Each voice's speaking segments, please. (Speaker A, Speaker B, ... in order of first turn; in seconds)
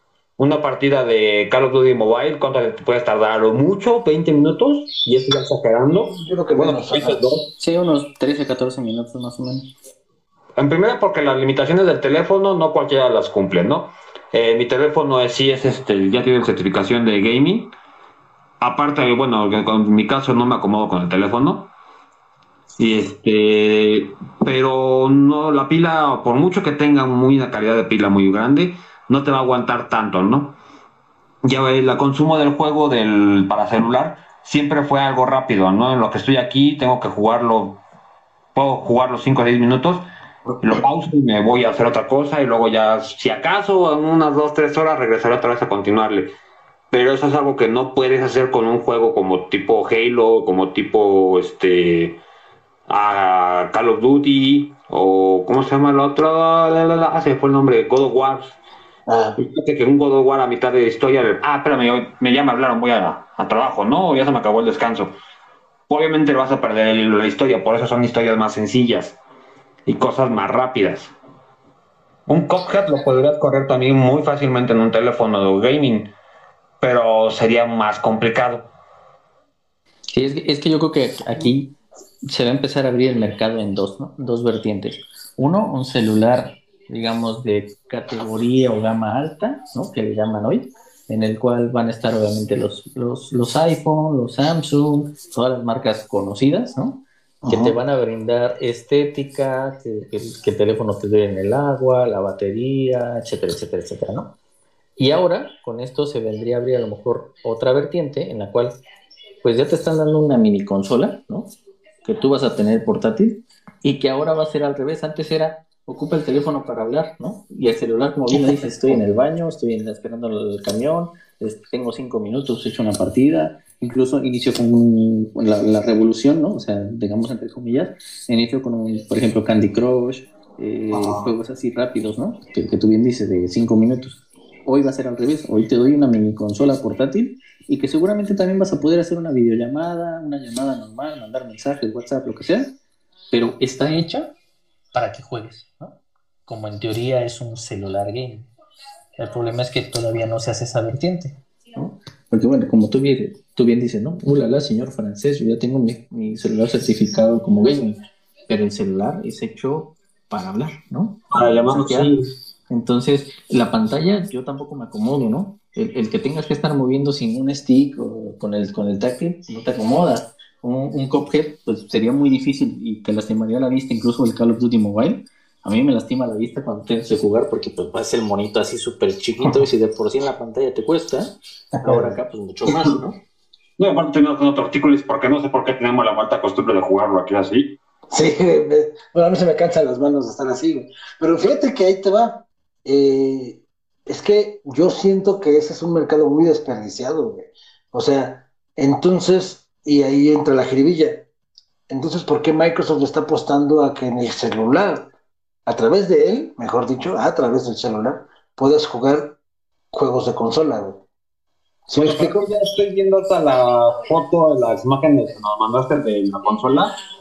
Speaker A: 0.4-7.4, 10.6-17.6, 18.6-21.6, 22.8-30.5, 31.4-37.7, 38.5-40.0, 40.6-46.3, 46.9-52.1, 52.9-58.5, 59.4-65.1, 65.9-69.2, 69.9-71.1, 72.3-76.1, 76.8-78.6, 161.3-162.2, 183.8-187.7, 212.0-216.9
Speaker B: 6.1-7.2, 40.5-40.8, 59.1-59.4, 97.4-97.8, 130.9-131.3, 181.8-182.1, 188.1-201.2, 201.9-205.0, 205.7-209.3, 209.9-211.0, 211.9-212.4
Speaker C: 7.6-9.7, 80.1-81.7, 82.2-97.0, 97.5-104.3, 105.0-108.7, 109.4-111.5, 112.0-142.7, 143.3-144.3, 144.9-145.9, 146.5-148.5, 149.2-162.1, 162.7-181.3, 181.8-183.2